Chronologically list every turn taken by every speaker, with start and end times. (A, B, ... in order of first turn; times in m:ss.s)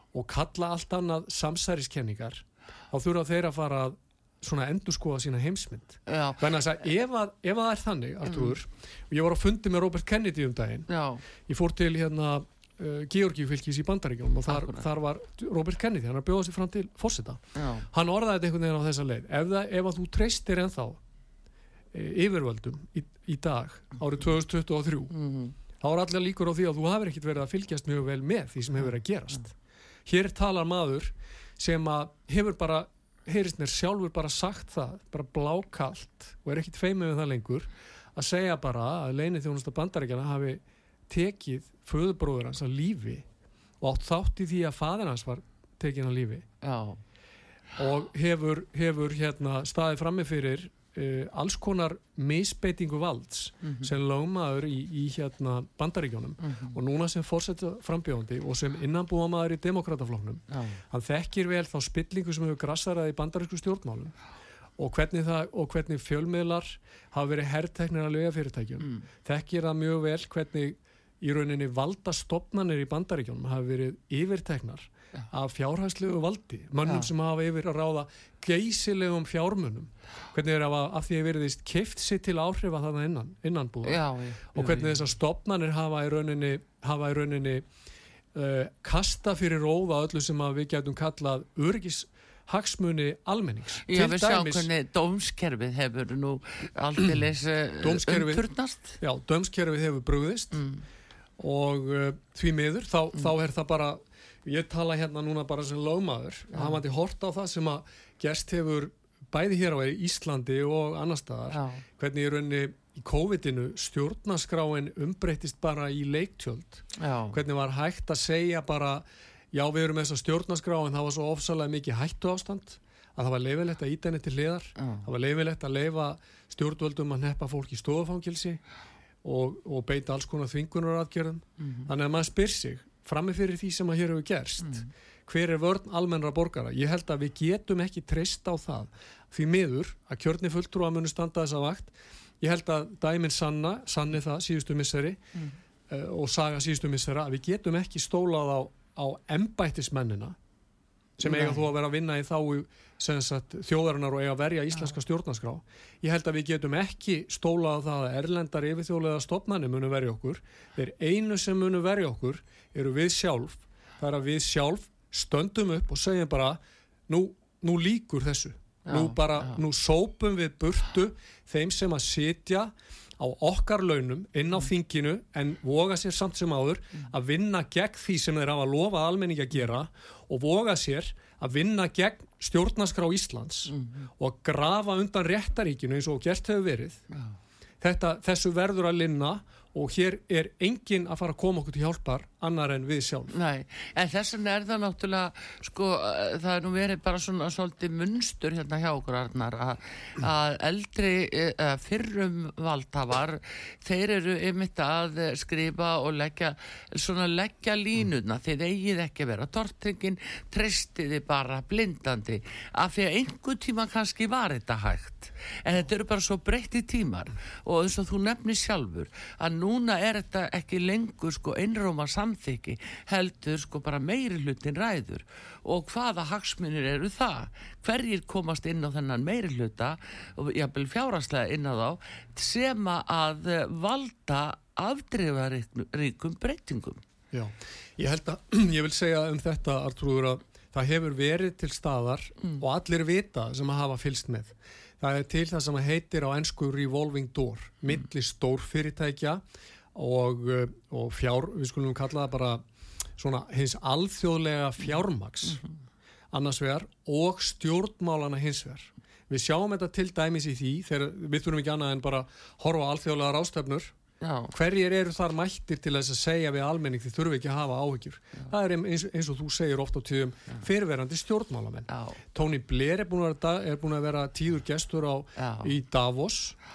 0:00.1-0:10.9 A
0:06.0-0:06.5 B
0:08.3-0:08.5 B
0:10.9-0:11.2 B
0:11.4-0:21.0 A
0:14.5-0:14.8 B
0:17.5-0:17.9 B
0:21.9-0:25.1 A
0:25.1-0:25.6 B
0:25.8-0:29.5 A
0:30.0-0:43.2 A
0:43.8-0:46.4 A
0:46.6-0:47.0 B
0:47.8-1:04.1 A
0:53.6-0:53.9 B
0:56.4-0:56.8 B
1:00.5-1:00.8 B
1:04.8-1:27.6 A
1:08.8-1:09.0 B
1:16.8-1:17.1 B
1:23.8-1:25.0 B
1:28.3-1:34.7 A
1:33.9-1:39.0 B
1:37.8-1:38.5 A
1:39.0-1:40.6 A
1:40.5-1:40.8 B
1:41.4-2:08.6 A
1:46.5-1:46.8 B
1:51.5-1:51.8 B
1:57.0-1:57.4 B
2:04.8-2:05.1 B
2:09.2-2:25.2 A
2:11.6-2:11.9 B
2:14.6-2:14.9 B
2:25.9-2:30.4 A
2:31.2-3:07.0 A
2:31.2-2:31.6 B
2:48.8-2:49.6 B
3:03.7-3:04.1 B
3:07.1-3:07.4 B
3:07.8-3:13.3 A
3:13.3-3:57.0 B
3:57.3-4:09.4 A
4:09.9-4:12.6 A
4:13.2-4:15.6 A
4:15.4-4:15.7 B
4:16.3-4:23.9 A
4:24.2-4:24.5 B
4:24.5-4:36.6 A
4:31.9-4:32.2 B
4:35.4-4:35.7 B